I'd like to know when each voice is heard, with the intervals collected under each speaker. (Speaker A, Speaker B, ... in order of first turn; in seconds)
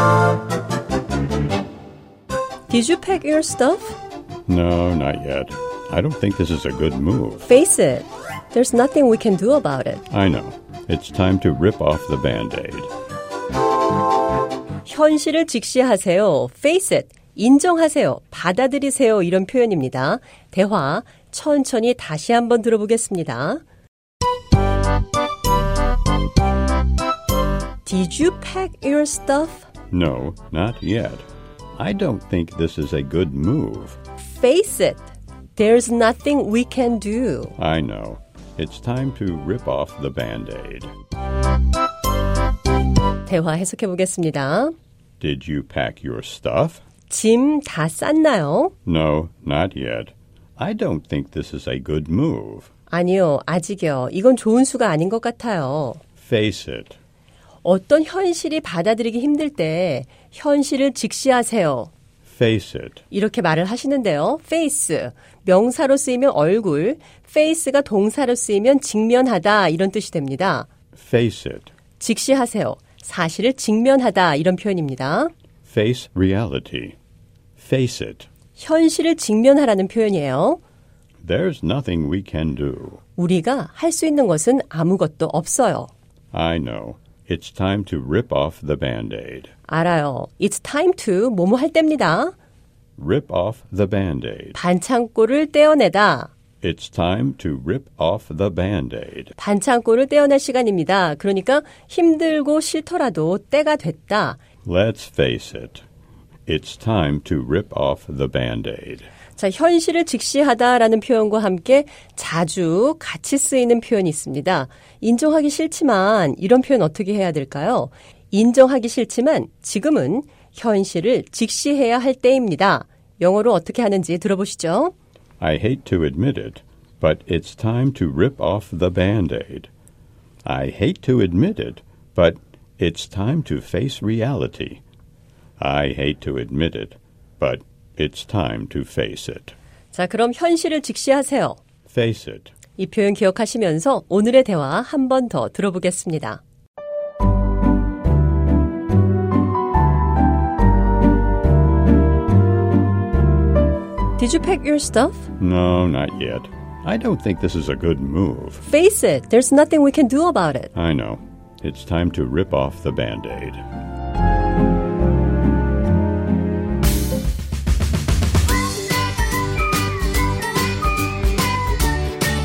Speaker A: 2.7-4.0, 7.4-10.0, 14.8-23.6, 27.8-29.7, 34.2-37.5, 43.2-44.7, 47.1-48.7, 52.9-56.0, 57.6-61.9, 63.1-70.7, 72.0-75.3, 78.6-80.6, 83.2-85.9, 89.7-92.3, 94.5-96.3, 99.4-104.4, 109.4-124.9, 139.9-141.6, 142.8-146.4, 154.2-155.3, 158.6-160.7
Speaker B: 4.5-7.5, 10.1-12.9, 29.9-34.0, 37.6-40.9, 45.2-46.8, 48.9-52.7, 56.2-57.0, 62.3-63.0, 71.0-71.7, 75.7-77.0, 77.6-78.3, 81.2-83.0, 86.3-89.5, 93.0-94.6, 96.6-99.3, 104.6-105.8, 106.5-109.1, 125.4-129.7, 130.4-134.8, 135.6-139.6, 141.9-142.5, 155.4-158.6, 160.7-163.6